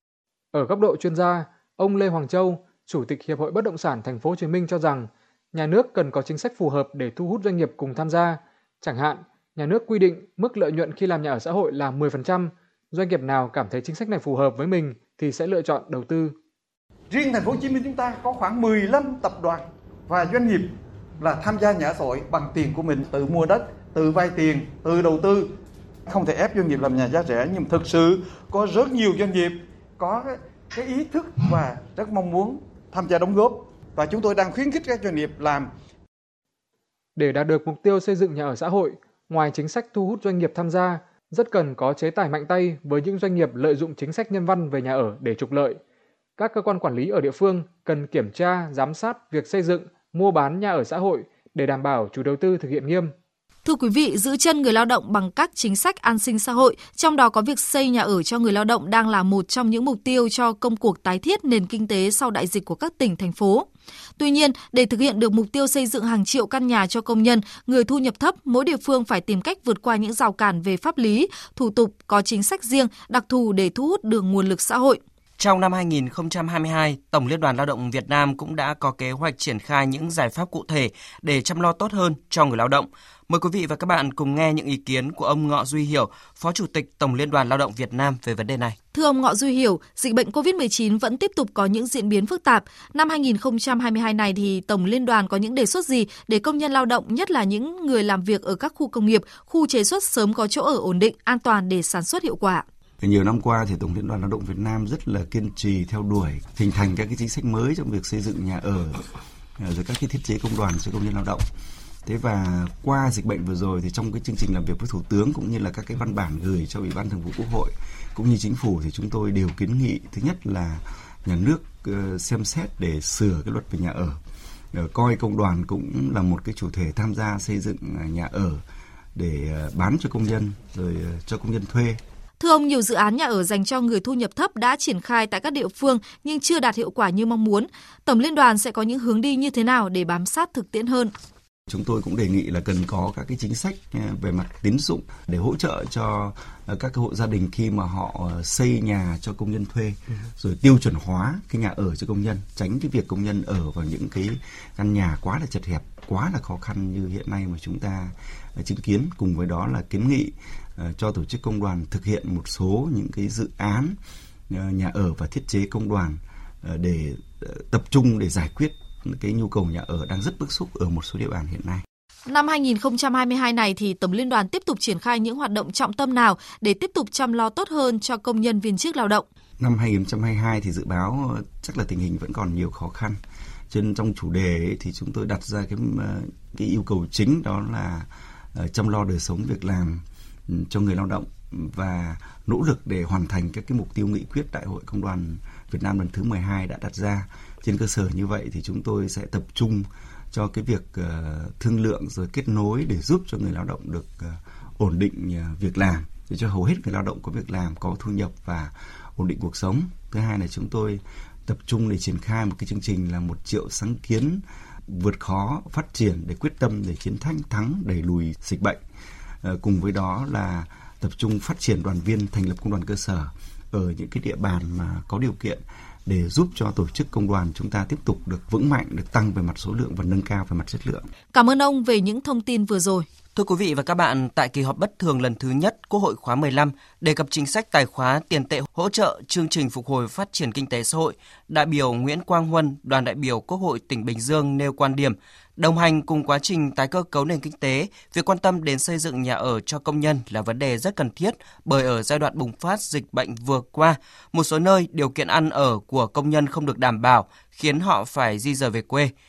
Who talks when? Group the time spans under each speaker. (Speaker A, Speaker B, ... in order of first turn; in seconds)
Speaker A: 0.5-16.4, 37.1-45.8, 46.4-53.1
Speaker B: 17.1-19.4, 20.1-20.4, 21.3-25.4, 26.1-28.1, 28.6-29.3, 30.8-31.6, 33.0-33.3, 34.0-35.3
Speaker C: 53.6-63.7, 64.2-75.0, 88.9-102.6, 132.4-141.1, 172.3-179.2, 231.3-233.1
Speaker D: 75.4-88.8, 233.3-259.1
Speaker E: 103.0-109.0, 109.6-111.4, 112.0-124.2, 124.7-128.6, 129.2-132.0, 141.7-164.0, 164.5-171.8, 179.6-183.2, 183.7-218.8, 219.4-231.1